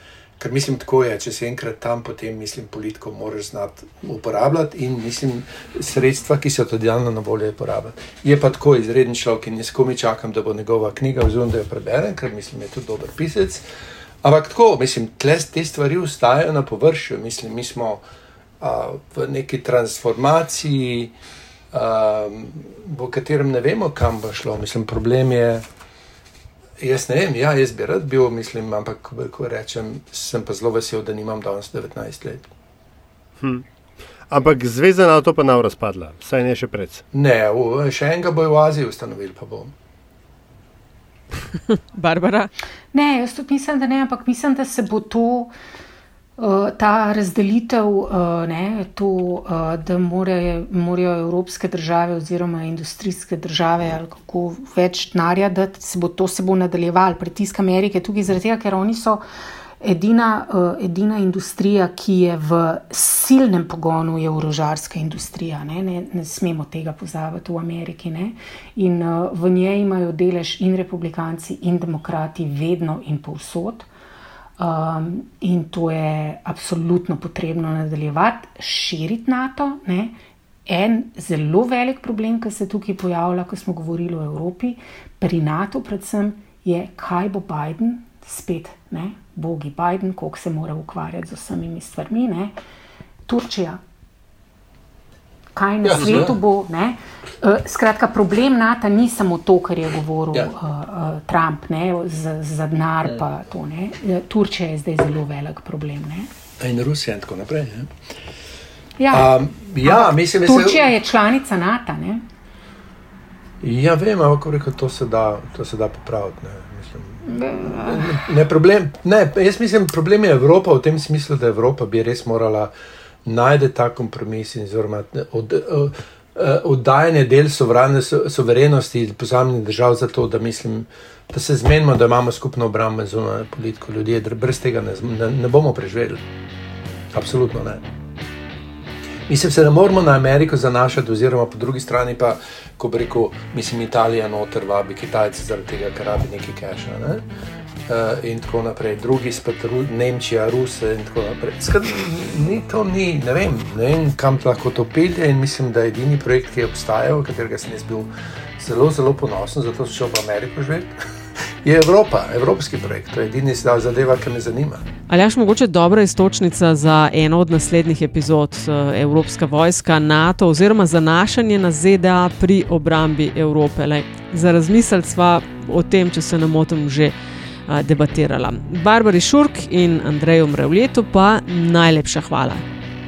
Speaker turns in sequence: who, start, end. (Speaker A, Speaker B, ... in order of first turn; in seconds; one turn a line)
Speaker A: 0.4-13.6
Speaker A: 14.2-18.0
Speaker A: 18.6-21.1
Speaker A: 21.7-25.6
Speaker A: 26.8-32.5
Speaker B: 33.4-33.6
Speaker B: 34.3-37.0
Speaker A: 37.1-39.7
Speaker C: 41.7-42.5
Speaker D: 42.9-45.5
Speaker D: 46.4-59.2
Speaker D: 59.8-73.9
Speaker D: 74.6-80.2
Speaker D: 80.7-92.5
Speaker D: 93.3-93.8
Speaker D: 95.5-106.3
Speaker A: 95.8-96.3
Speaker B: 95.9-96.3
Speaker A: 106.6-108.1
Speaker D: 109.0-112.2
Speaker A: 109.1-110.9
Speaker A: 113.6-122.7
Speaker D: 117.2-118.2
Speaker A: 123.2-136.2
Speaker A: 137.1-137.8
Speaker A: 139.3-147.2
Speaker A: 147.9-164.8
Speaker C: 165.1-177.1
Speaker C: 177.7-182.6